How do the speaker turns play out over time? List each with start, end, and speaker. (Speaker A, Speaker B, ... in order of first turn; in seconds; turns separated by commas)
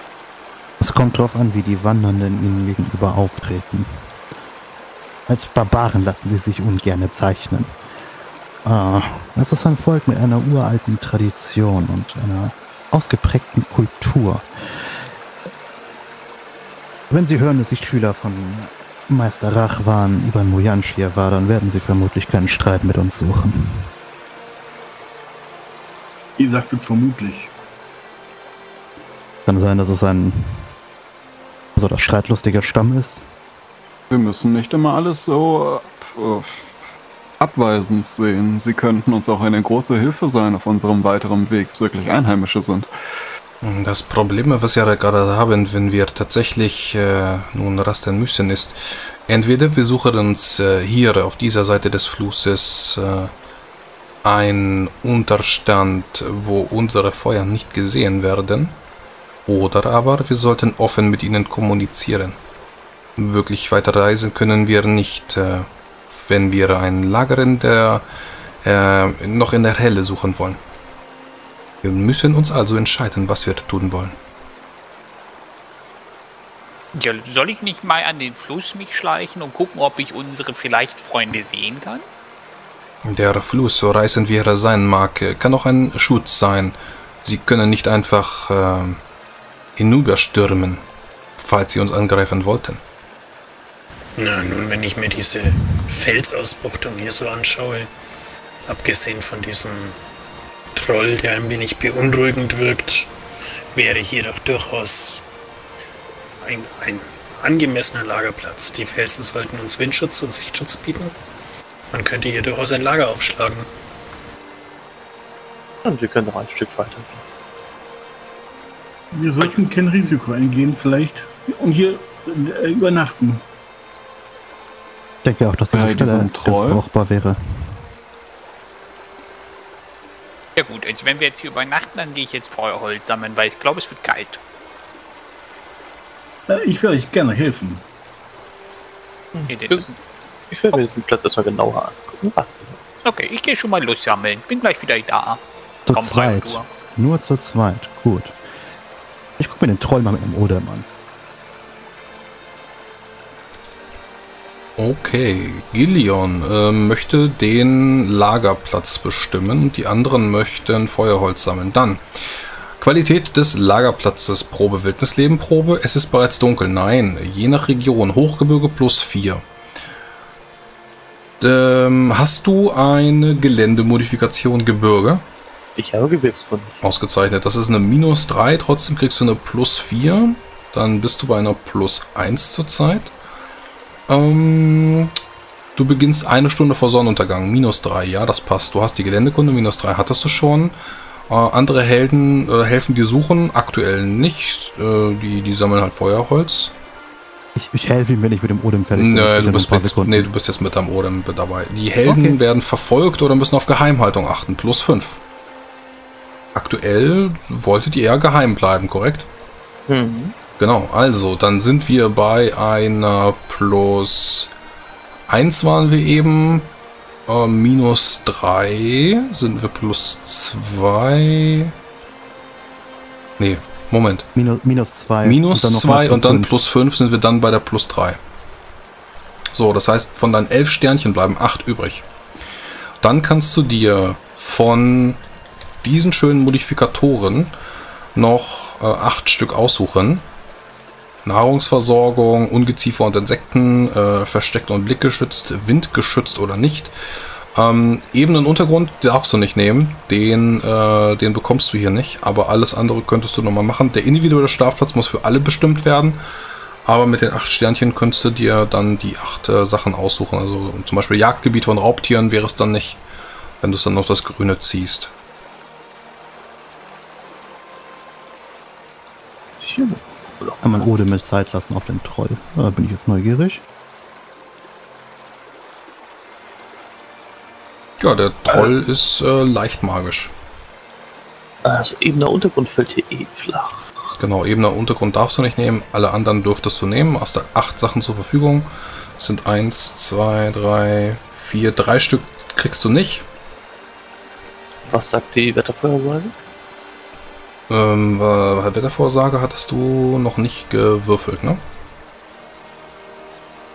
Speaker A: 0.8-4.0, Speaker A: 5.3-7.8, Speaker A: 8.6-14.4, Speaker A: 17.1-23.9, Speaker B: 26.4-27.5, Speaker A: 29.4-30.7, Speaker A: 31.8-33.2, Speaker C: 34.1-36.6, Speaker C: 37.4-42.9, Speaker D: 43.6-53.3, Speaker D: 54.2-58.8, Speaker D: 59.5-62.4, Speaker D: 63.2-68.0, Speaker D: 68.6-70.6, Speaker D: 71.8-74.2, Speaker E: 76.9-82.0, Speaker D: 83.0-89.0, Speaker D: 89.8-90.8, Speaker D: 91.4-92.8, Speaker F: 94.2-97.9, Speaker F: 98.7-100.0, Speaker F: 100.7-103.1, Speaker F: 103.7-105.2, Speaker F: 106.4-111.1, Speaker F: 111.9-113.7, Speaker G: 115.8-117.2, Speaker B: 119.1-123.4, Speaker A: 125.2-127.8, Speaker C: 125.7-126.8, Speaker E: 130.6-134.4, Speaker B: 136.5-137.8, Speaker G: 139.3-140.0, Speaker E: 139.5-139.9, Speaker G: 140.5-142.8, Speaker E: 143.0-146.7, Speaker A: 145.9-148.4, Speaker A: 149.4-150.9, Speaker D: 154.8-162.0, Speaker D: 162.8-169.4, Speaker D: 171.4-175.2, Speaker G: 175.8-176.8, Speaker D: 176.8-183.1, Speaker D: 184.1-185.1, Speaker D: 185.8-190.7, Speaker D: 191.3-196.7, Speaker A: 197.6-200.3, Speaker D: 198.9-205.2, Speaker A: 202.0-202.4, Speaker D: 206.5-209.3, Speaker G: 209.9-210.3, Speaker D: 210.6-214.5, Speaker D: 215.3-216.7, Speaker D: 217.3-221.7, Speaker D: 223.4-224.3, Speaker A: 224.3-226.5, Speaker D: 225.2-228.2, Speaker D: 229.5-232.0, Speaker D: 233.0-235.2, Speaker D: 235.8-237.5, Speaker D: 238.2-240.2, Speaker D: 241.2-246.9, Speaker D: 247.5-256.2, Speaker D: 256.8-263.0, Speaker D: 263.6-265.1, Speaker G: 269.6-270.9, Speaker A: 270.6-273.6, Speaker D: 278.0-280.3, Speaker G: 278.5-278.8, Speaker G: 281.6-283.9, Speaker D: 284.2-293.2, Speaker G: 294.9-296.4, Speaker D: 297.7-301.6